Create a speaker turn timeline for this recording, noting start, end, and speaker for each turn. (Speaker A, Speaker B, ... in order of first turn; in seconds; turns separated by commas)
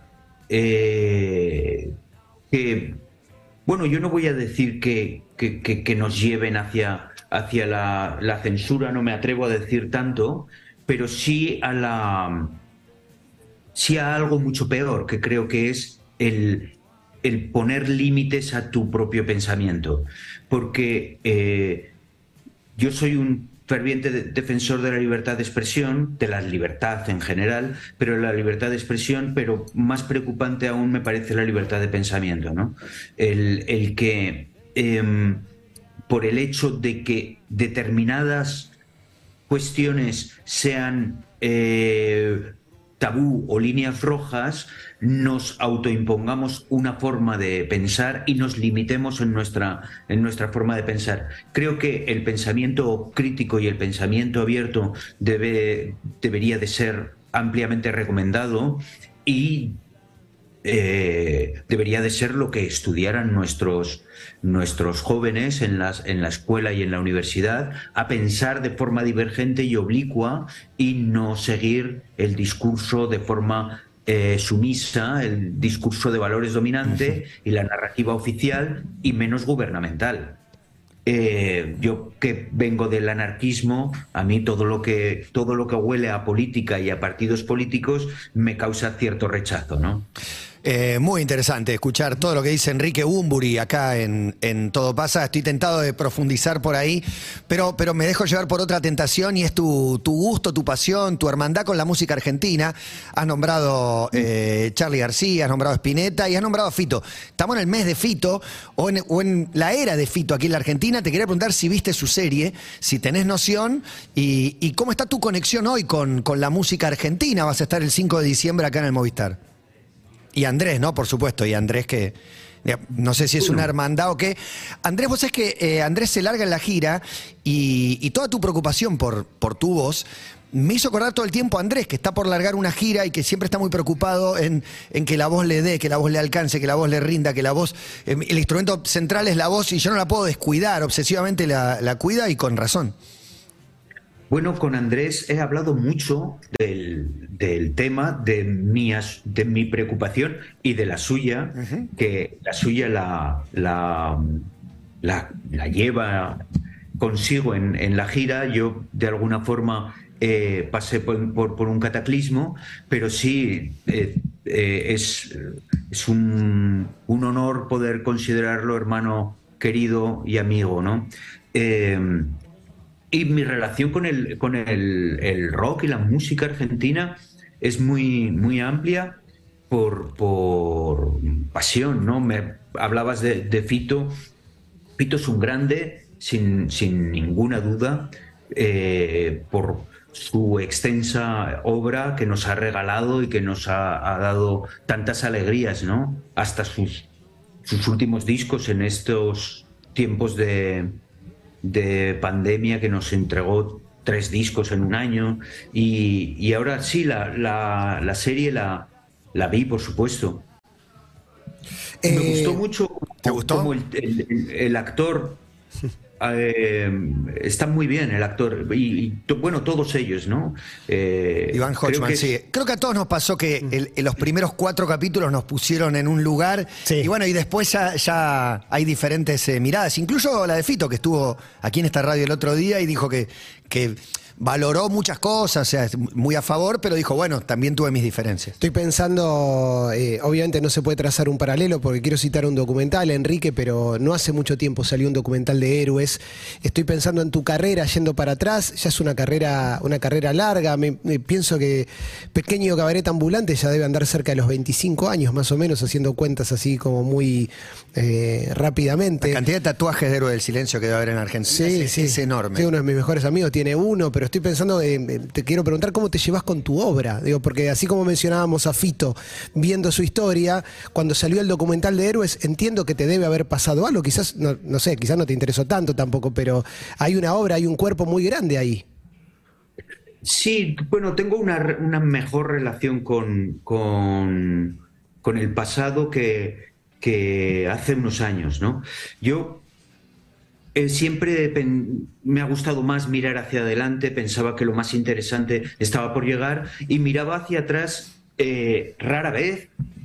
Speaker A: 0.5-1.9, Speaker A: 2.5-3.0, Speaker A: 3.7-12.6, Speaker A: 13.7-21.9, Speaker A: 22.8-35.5, Speaker A: 36.1-38.7, Speaker A: 39.5-59.8, Speaker A: 60.6-80.4, Speaker A: 81.0-90.1, Speaker B: 90.6-119.4, Speaker B: 120.3-142.9, Speaker A: 144.3-154.5, Speaker A: 155.0-156.4, Speaker A: 157.0-172.4, Speaker A: 173.1-179.2, Speaker A: 179.7-184.2, Speaker A: 185.0-197.1, Speaker A: 197.6-201.0, Speaker A: 201.6-210.4, Speaker C: 212.0-212.6, Speaker A: 212.1-215.4, Speaker B: 213.2-213.7, Speaker A: 216.2-222.3, Speaker B: 221.5-238.6, Speaker C: 238.6-259.4, Speaker B: 259.2-262.7, Speaker C: 261.5-278.8, Speaker A: 280.2-289.6, Speaker A: 290.7-299.7